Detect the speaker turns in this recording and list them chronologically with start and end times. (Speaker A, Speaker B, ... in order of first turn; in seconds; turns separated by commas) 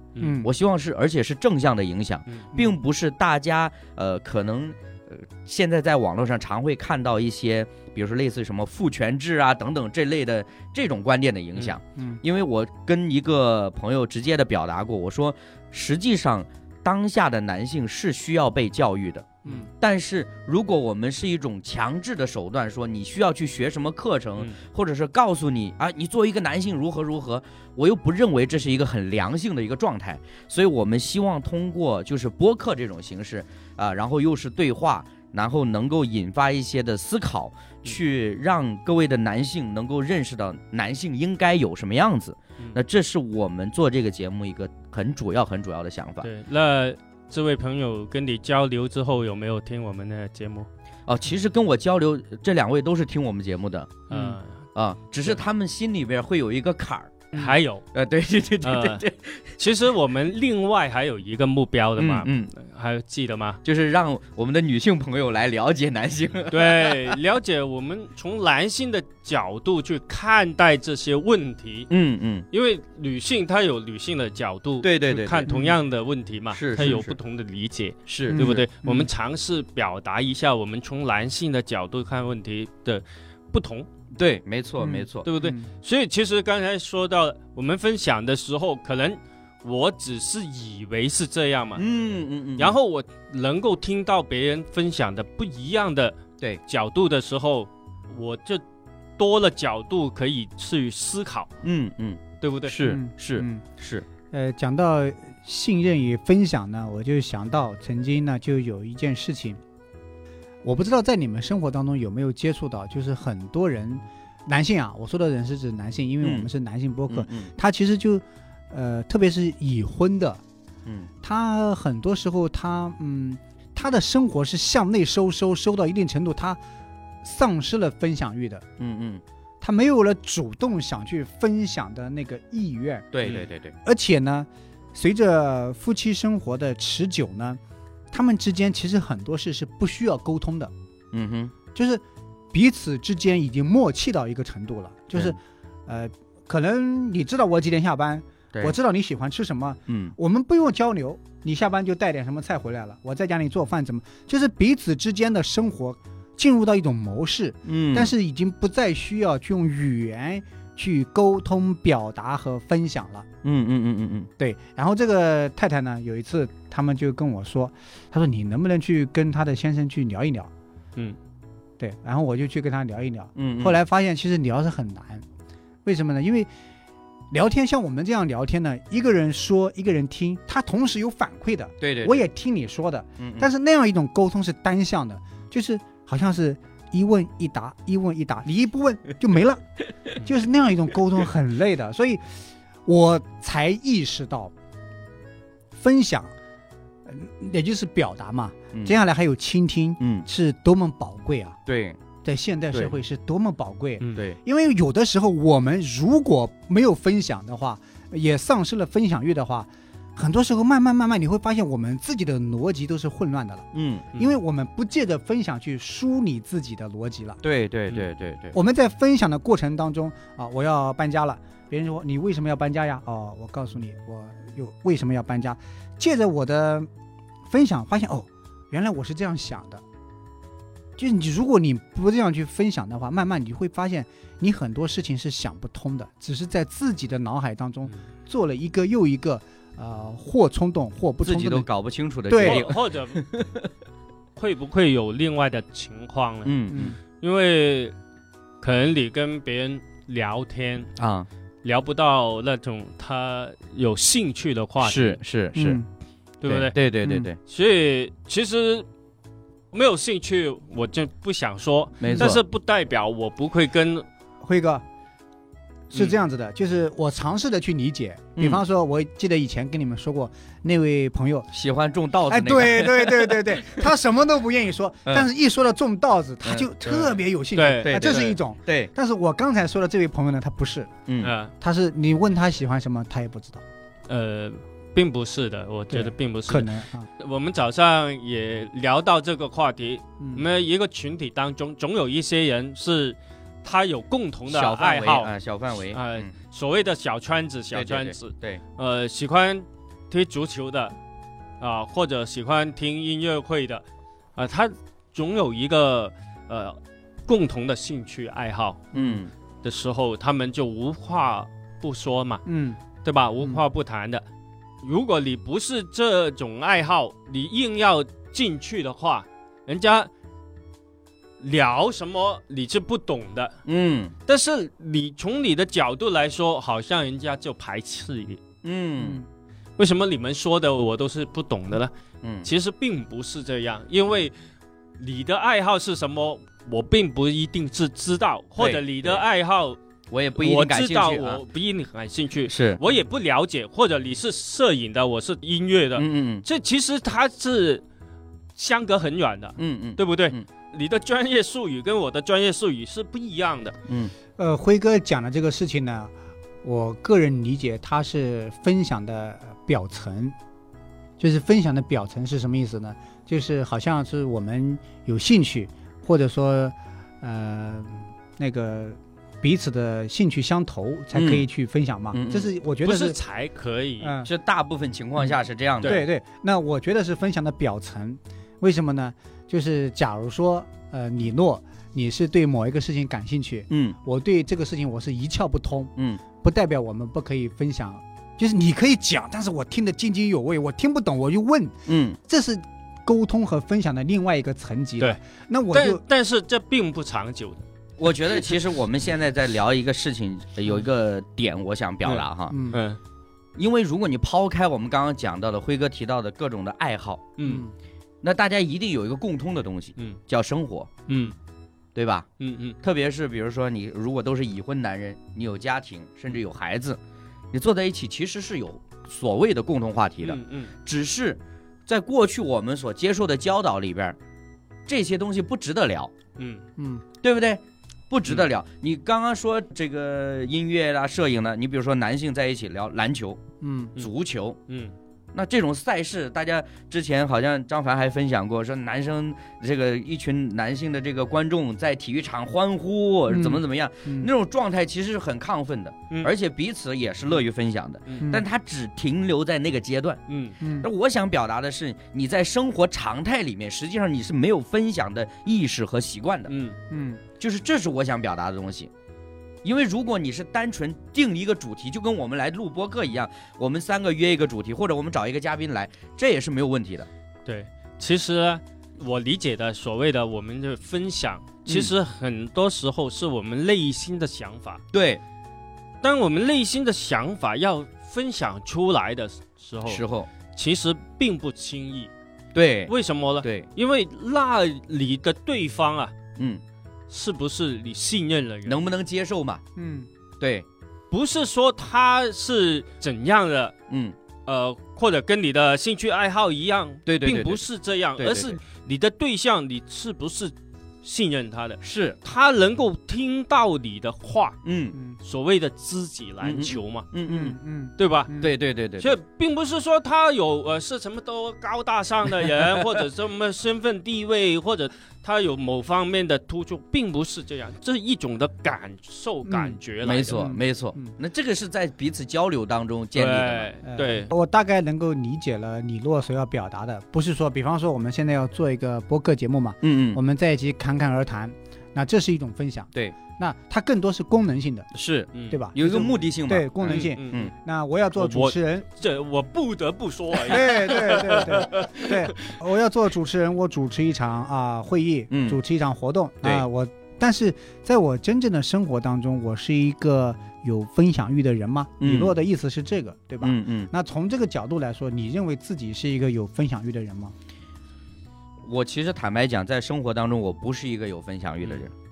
Speaker A: 0.2-0.5, Speaker B: 0.4-46.3, Speaker C: 46.2-50.7, Speaker B: 51.1-54.1, Speaker C: 54.1-54.6, Speaker A: 54.1-54.4, Speaker B: 54.8-59.6, Speaker C: 57.3-57.8, Speaker C: 58.6-59.0, Speaker C: 59.6-63.6, Speaker B: 62.0-62.5, Speaker B: 63.6-67.2, Speaker C: 66.5-71.9, Speaker B: 71.9-72.5, Speaker C: 72.5-83.9, Speaker B: 74.8-75.5, Speaker A: 75.5-75.8, Speaker B: 76.5-77.2, Speaker B: 78.1-78.7, Speaker A: 78.3-79.1, Speaker B: 84.2-85.3, Speaker A: 84.8-85.7, Speaker C: 85.2-91.8, Speaker B: 91.8-92.8, Speaker C: 92.6-98.6, Speaker C: 99.2-101.5, Speaker B: 101.6-104.1, Speaker C: 102.4-102.8, Speaker A: 102.8-103.6, Speaker A: 104.3-109.6, Speaker A: 110.6-120.4, Speaker B: 116.2-116.5, Speaker B: 117.1-117.5, Speaker A: 121.2-126.6, Speaker A: 127.2-128.7, Speaker B: 128.8-129.2, Speaker A: 129.6-133.1, Speaker B: 133.1-133.8, Speaker A: 133.8-137.6, Speaker A: 138.1-140.7, Speaker B: 141.1-141.5, Speaker A: 141.8-163.3, Speaker B: 149.9-150.2, Speaker B: 157.7-158.1, Speaker B: 163.4-164.3, Speaker A: 164.4-170.5, Speaker A: 171.8-175.2, Speaker B: 173.4-173.8, Speaker A: 175.8-176.5, Speaker A: 177.3-189.6, Speaker B: 181.8-182.2, Speaker B: 183.2-183.5, Speaker A: 190.2-194.5, Speaker A: 195.7-196.3, Speaker A: 197.1-201.6, Speaker B: 200.0-200.3, Speaker B: 201.7-202.0, Speaker A: 202.2-217.4, Speaker B: 213.7-214.1, Speaker B: 217.4-218.6, Speaker A: 218.5-226.9, Speaker A: 227.5-229.8, Speaker A: 231.0-241.7, Speaker B: 241.2-243.7, Speaker A: 242.3-242.7, Speaker C: 242.4-243.2, Speaker C: 244.4-247.9, Speaker B: 246.4-247.0, Speaker A: 246.7-247.0, Speaker C: 248.6-250.9, Speaker B: 251.0-251.3, Speaker C: 251.6-255.2, Speaker B: 254.8-255.8, Speaker A: 255.6-255.9, Speaker C: 256.4-256.8, Speaker B: 256.4-257.4, Speaker C: 257.5-258.9, Speaker C: 259.7-264.1, Speaker B: 262.0-262.4, Speaker A: 262.1-262.4, Speaker A: 264.4-264.8, Speaker A: 265.9-271.5, Speaker B: 268.4-268.6, Speaker B: 271.5-273.9, Speaker A: 272.3-280.9, Speaker C: 276.9-278.4, Speaker B: 277.8-278.9, Speaker B: 281.1-281.3, Speaker C: 281.2-281.5, Speaker A: 281.6-283.6, Speaker C: 284.1-295.3, Speaker A: 285.9-287.1, Speaker A: 290.2-290.4, Speaker B: 294.5-296.3, Speaker C: 295.9-300.9, Speaker B: 297.7-298.6, Speaker C: 301.6-303.9, Speaker C: 304.4-308.9, Speaker A: 308.9-309.2, Speaker B: 308.9-309.3, Speaker C: 309.6-312.4, Speaker A: 312.5-312.8, Speaker C: 313.0-314.2, Speaker C: 314.8-320.1, Speaker C: 321.4-323.6, Speaker B: 323.7-324.1, Speaker C: 324.3-328.4, Speaker B: 328.6-329.2, Speaker A: 329.0-329.3, Speaker C: 329.8-331.9, Speaker B: 332.2-332.5, Speaker C: 332.4-334.3, Speaker C: 335.0-339.8, Speaker B: 338.6-339.2, Speaker B: 340.1-341.4, Speaker C: 340.4-347.8, Speaker B: 342.5-342.8, Speaker B: 346.0-346.5, Speaker C: 348.6-353.8, Speaker B: 349.6-350.4, Speaker B: 353.9-354.1, Speaker A: 354.4-356.1, Speaker A: 356.6-360.4, Speaker A: 361.2-373.2, Speaker B: 371.1-371.5, Speaker B: 372.1-372.5, Speaker C: 372.8-374.1, Speaker A: 374.0-374.3, Speaker B: 374.2-376.0, Speaker A: 375.8-396.0, Speaker B: 383.7-384.0, Speaker B: 386.0-386.2, Speaker B: 391.9-392.2, Speaker C: 395.7-397.6, Speaker B: 398.0-402.6, Speaker C: 402.1-403.0, Speaker A: 402.5-402.8, Speaker B: 403.6-407.3, Speaker C: 407.4-407.6, Speaker A: 407.4-407.7, Speaker B: 408.2-411.0, Speaker C: 411.1-411.4, Speaker B: 411.9-412.3, Speaker C: 412.4-412.8, Speaker B: 412.8-417.0, Speaker B: 417.5-424.2, Speaker C: 420.2-420.7, Speaker B: 424.9-426.1, Speaker C: 426.4-426.6, Speaker A: 426.8-427.0, Speaker B: 427.2-433.4, Speaker A: 433.6-433.9, Speaker B: 434.0-434.6, Speaker C: 434.7-434.9, Speaker B: 435.3-456.5, Speaker A: 443.3-444.3, Speaker C: 450.3-450.6, Speaker A: 450.6-450.9, Speaker C: 456.5-456.8, Speaker A: 456.9-457.2, Speaker B: 457.4-458.9, Speaker B: 459.6-467.1, Speaker C: 467.5-474.8, Speaker B: 471.7-471.9, Speaker B: 474.9-475.2, Speaker C: 476.0-482.1, Speaker B: 479.9-480.3, Speaker B: 482.5-483.7, Speaker C: 482.9-486.1, Speaker B: 486.4-486.6, Speaker C: 487.1-488.8, Speaker B: 488.6-489.6, Speaker A: 489.8-490.1, Speaker B: 490.4-490.7, Speaker C: 491.1-493.7, Speaker B: 493.9-494.2, Speaker C: 494.5-504.6, Speaker B: 497.1-498.6, Speaker B: 501.8-502.2, Speaker B: 504.6-505.0, Speaker C: 505.2-507.1, Speaker B: 506.4-507.6, Speaker A: 507.3-508.5, Speaker C: 508.0-508.3, Speaker B: 508.4-509.2, Speaker C: 509.0-520.4, Speaker A: 519.5-519.8, Speaker B: 520.0-523.7, Speaker A: 520.3-521.1, Speaker C: 523.1-524.3, Speaker A: 523.8-534.9, Speaker B: 529.8-530.2, Speaker B: 534.9-537.5, Speaker C: 535.3-535.6, Speaker A: 535.5-538.9, Speaker C: 536.8-537.5, Speaker C: 538.2-542.5, Speaker A: 540.5-557.4, Speaker B: 545.3-545.6, Speaker B: 552.0-552.3, Speaker B: 553.4-553.9, Speaker B: 558.6-561.9